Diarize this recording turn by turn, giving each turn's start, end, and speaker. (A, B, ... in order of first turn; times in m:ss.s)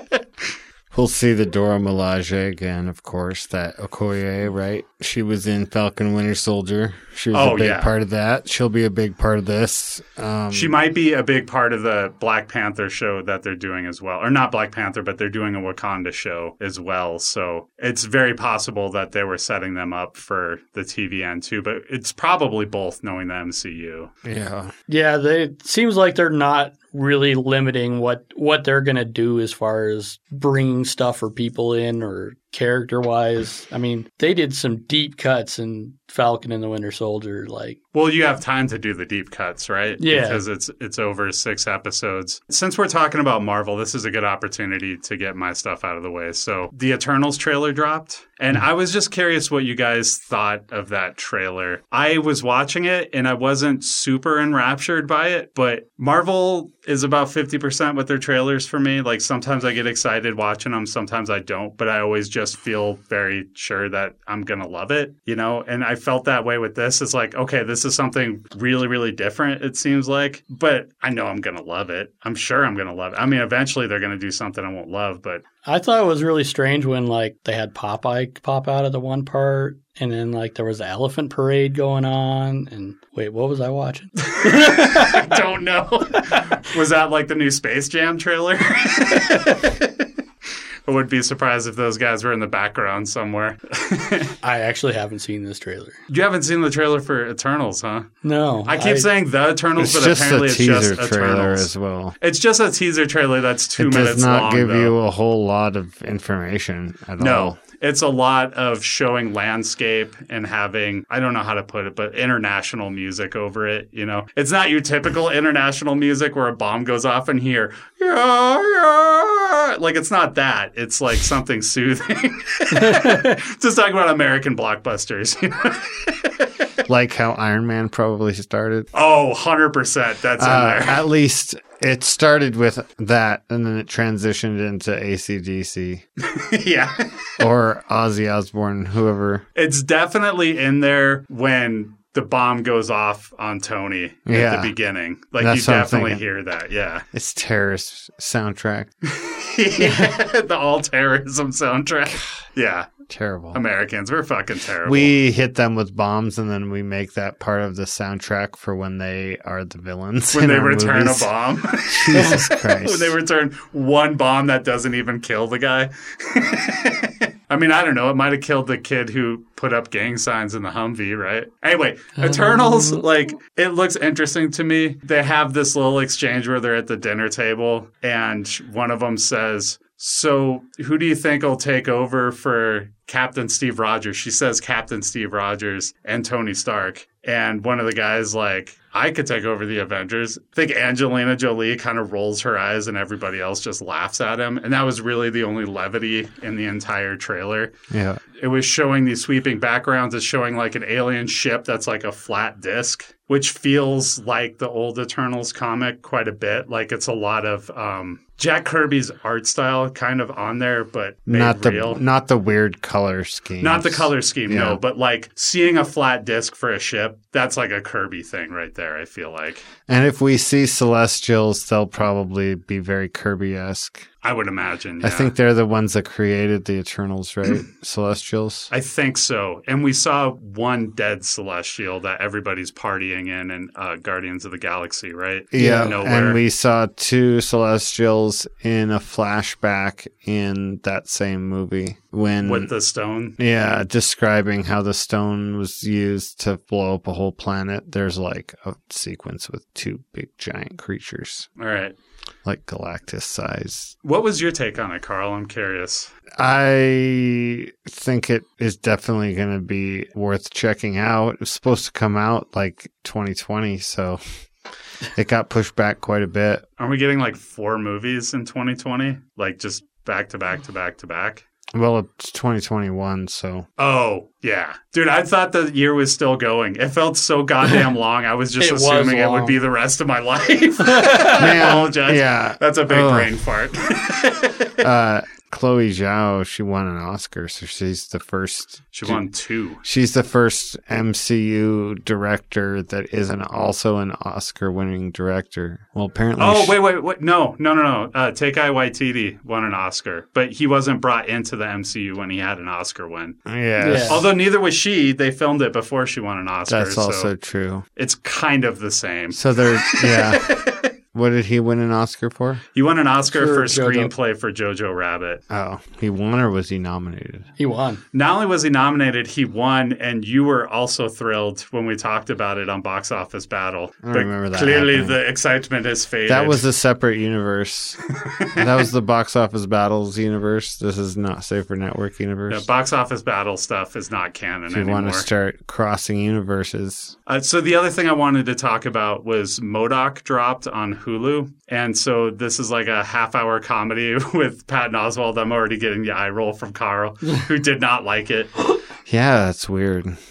0:00.9-0:10.7 A
0:07.3-0:07.9 B
0:10.5-0:24.1 B
0:24.2-0:24.7 A
0:24.9-0:37.8 C
0:37.9-1:15.4 B
0:40.0-0:40.4 C
1:15.6-1:25.3 C
1:24.5-1:30.1 B
1:30.8-1:34.3 B
1:34.4-1:36.0 C
1:36.1-1:38.1 B
1:38.2-1:39.1 C
1:38.6-1:44.9 B
1:39.8-1:42.2 A
1:43.8-1:47.6 A
1:47.2-2:06.3 B
2:02.7-2:03.4 C
2:06.9-2:08.9 A
2:08.9-2:11.0 B
2:10.4-2:16.0 A
2:16.3-2:17.3 B
2:17.4-2:19.4 A
2:19.5-2:27.0 B
2:24.2-2:24.7 A
2:25.4-2:26.2 A
2:27.1-2:28.9 A
2:29.1-2:33.0 B
2:33.1-2:33.6 A
2:33.5-2:35.1 B
2:34.8-2:41.3 A
2:40.3-3:17.7 B
2:41.8-2:43.1 A
2:52.2-2:53.0 C
3:17.9-3:18.2 A
3:18.4-3:32.0 B
3:31.3-3:34.8 A
3:33.6-3:39.6 B
3:39.9-3:44.1 A
3:44.2-3:45.3 B
3:45.0-3:48.7 A
3:48.7-3:56.4 B
3:55.5-4:02.7 A
3:55.6-3:56.0 C
4:02.4-4:03.4 B
4:03.4-4:11.5 A
4:11.6-4:12.0 B
4:12.4-4:13.9 A
4:14.0-4:16.1 B
4:16.4-4:24.2 A
4:25.1-4:26.6 A
4:26.8-4:31.4 B
4:31.7-4:33.7 A
4:33.8-4:44.8 B
4:38.6-4:39.6 C
4:40.9-4:41.4 C
4:41.3-4:43.3 A
4:44.8-4:49.2 A
4:48.9-4:49.8 B
4:49.8-4:56.7 A
4:56.4-5:03.4 B
5:03.4-5:04.3 A
5:03.8-5:04.2 C
5:04.1-5:07.3 B
5:06.7-5:07.8 A
5:08.0-5:10.9 B
5:09.3-5:10.5 A
5:11.1-5:12.6 A
5:12.7-5:15.4 B
5:13.3-5:14.1 A
5:15.5-5:17.5 A
5:17.6-5:18.0 C
5:18.1-5:26.6 B
5:24.0-5:25.2 A
5:26.3-5:28.0 A
5:28.4-5:28.7 B
5:28.5-5:32.6 A
5:32.5-5:35.3 B
5:34.7-5:37.1 A
5:37.3-5:48.5 B
5:49.1-5:50.2 A